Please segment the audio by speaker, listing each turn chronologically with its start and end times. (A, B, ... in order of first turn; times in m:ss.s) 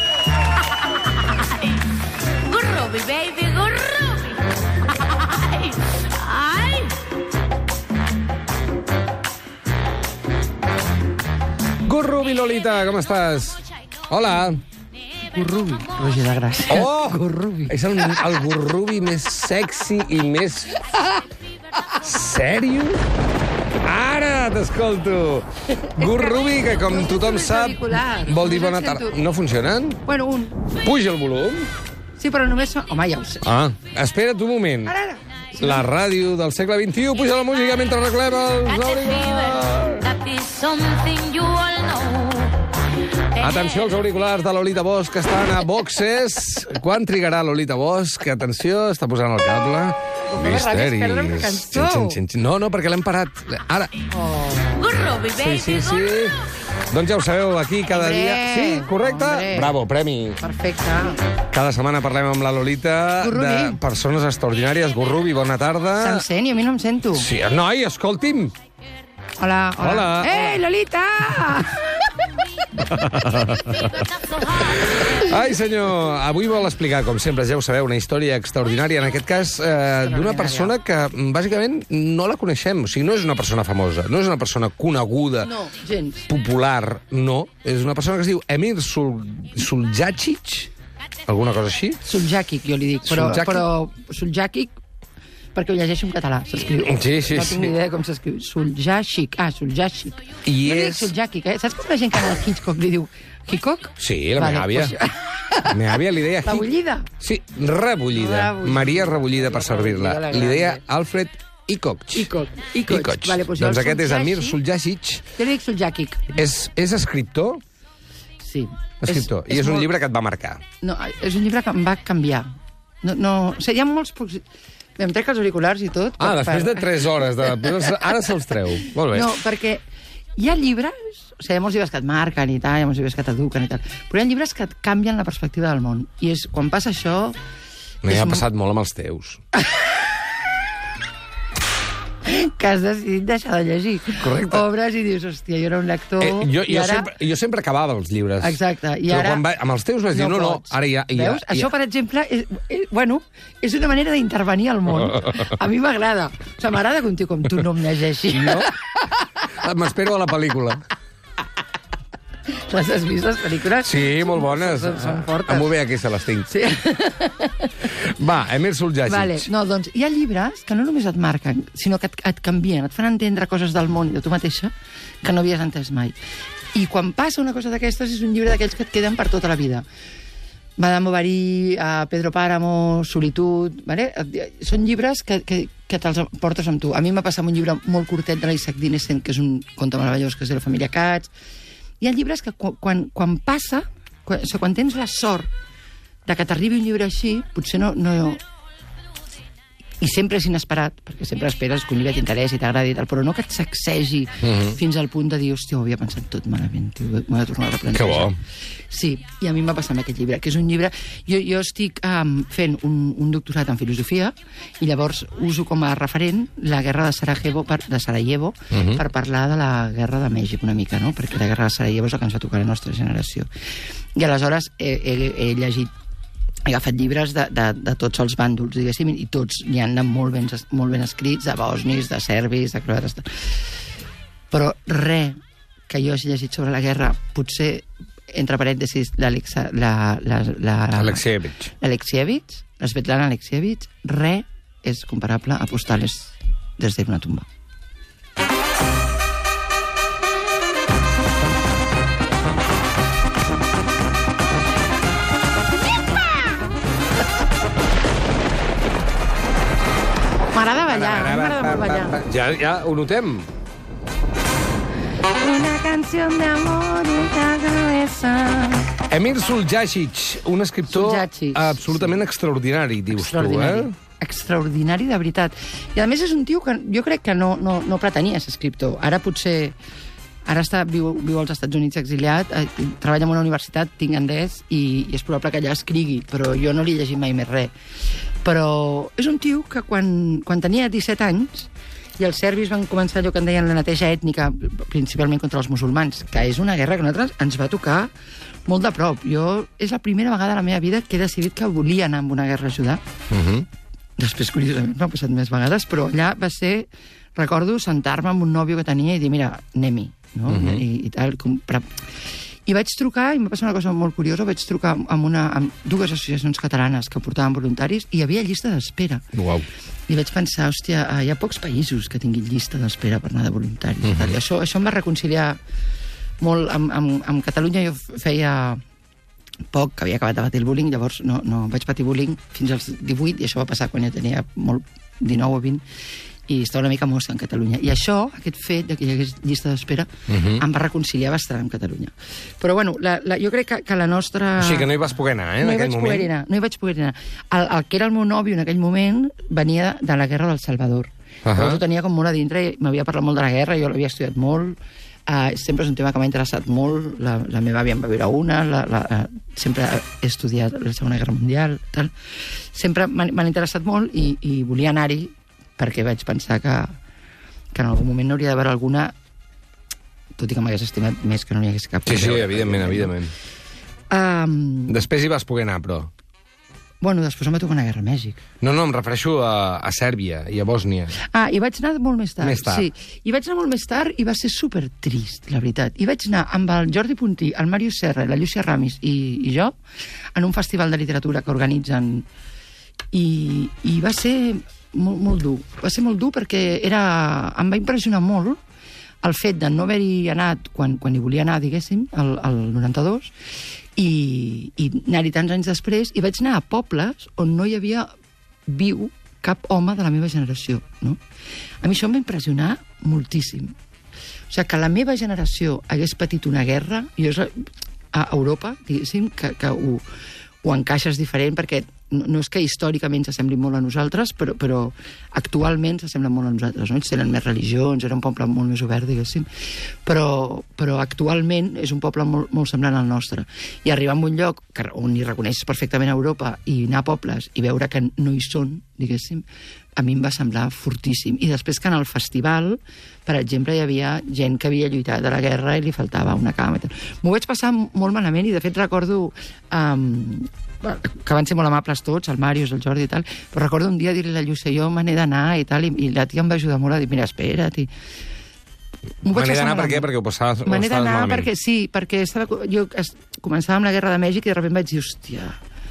0:01.2-0:01.5 A
0:02.4-0:07.0 A
0:11.8-0:14.6 B
0:15.2-0:18.0 C
0:16.7-0:20.8 B
0:22.0-0:23.0 B
0:23.8-0:30.0 B
0:25.8-0:29.2 C
0:30.0-0:30.6 C
0:30.8-0:31.7 B
0:32.2-0:33.4 C
0:33.4-0:34.9 B
0:34.9-0:35.8 C
0:35.6-0:40.1 B
0:38.7-0:42.7 A
0:43.3-0:43.9 A
0:43.4-0:54.0 B
0:50.3-0:52.2 C
0:54.1-0:54.7 C
0:54.7-0:56.3 A
0:55.3-0:56.4 B
0:56.9-1:00.4 B
0:57.9-0:59.8 C
1:00.4-1:01.2 C
1:01.5-1:06.2 B
1:03.2-1:03.8 C
1:06.0-1:07.3 C
1:07.1-1:08.5 B
1:09.4-1:11.9 C
1:09.8-1:10.6 B
1:12.8-1:14.1 B
1:14.2-1:14.6 A
1:14.6-1:25.5 B
1:20.0-1:20.7 C
1:25.4-1:26.3 C
1:26.3-1:30.7 B
1:31.2-1:32.0 B
1:32.0-1:34.8 C
1:33.0-1:33.6 B
1:35.5-1:47.1 C
1:36.8-1:37.7 B
1:40.4-1:41.1 B
1:44.0-1:45.0 B
1:45.7-1:52.3 B
1:48.1-1:50.8 C
1:52.1-1:54.6 C
1:52.8-1:55.3 B
1:55.3-1:56.4 C
1:56.4-1:57.6 B
1:58.4-1:59.9 C
1:59.0-2:00.6 B
2:00.8-2:04.4 C
2:05.0-2:08.0 C
2:06.2-2:09.3 B
2:09.1-2:09.8 C
2:10.4-2:17.4 C
2:18.0-2:19.4 B
2:18.0-2:18.4 C
2:19.5-2:19.9 C
2:22.2-2:27.1 C
2:24.2-2:24.6 B
2:26.2-2:31.7 B
2:28.4-2:29.4 C
2:30.1-2:39.3 C
2:38.3-2:38.7 B
2:39.5-2:40.8 B
2:42.5-2:45.7 C
2:43.8-2:46.5 B
2:46.5-2:47.9 C
2:47.8-2:49.5 B
2:49.0-2:56.2 C
2:56.7-2:59.8 C
3:00.8-3:11.3 C
3:12.0-3:15.5 C
3:16.2-3:18.4 C
3:20.0-3:28.4 C
3:24.4-3:24.8 B
3:27.9-3:28.4 B
3:28.9-3:43.5 C
3:38.7-3:39.0 B
3:44.2-3:45.9 C
3:46.6-3:53.6 C
3:54.5-4:01.2 C
4:00.9-4:01.7 B
4:01.8-4:07.4 C
4:20.5-4:22.2 C
4:20.9-4:23.5 B
4:25.3-4:29.0 C
4:29.1-4:33.9 B
4:30.9-4:32.2 C
4:33.1-4:39.8 C
4:40.4-4:47.7 C
4:48.4-4:58.1 C
4:58.6-5:03.0 C
5:03.3-5:03.6 B
5:04.2-5:19.3 C
5:10.5-5:10.8 B
5:19.3-5:19.7 B
5:20.1-5:25.6 C
5:24.0-5:24.4 B
5:26.4-5:28.8 C
5:29.7-5:35.8 C
5:36.5-5:45.0 C
5:40.3-5:40.6 B
5:44.6-5:46.3 B
5:45.6-6:02.1 C
5:51.4-5:51.8 B
6:02.7-6:07.0 C
6:07.7-6:09.1 C
6:10.4-6:13.1 C
6:12.0-6:13.3 B
6:14.1-6:15.0 C
6:14.9-6:16.1 B
6:17.0-6:18.4 C
6:18.6-6:21.2 B
6:21.2-6:29.8 C
6:22.4-6:22.9 B
6:30.3-6:32.2 C
6:33.1-6:38.6 C
6:39.2-6:43.3 C
6:44.0-6:48.1 C
6:48.7-6:51.2 C
6:51.8-6:53.7 C
6:54.5-7:00.0 C
7:00.6-7:19.4 C
7:20.0-7:37.9 C
7:39.2-7:40.1 C
7:39.3-7:41.5 B
7:40.6-7:45.6 C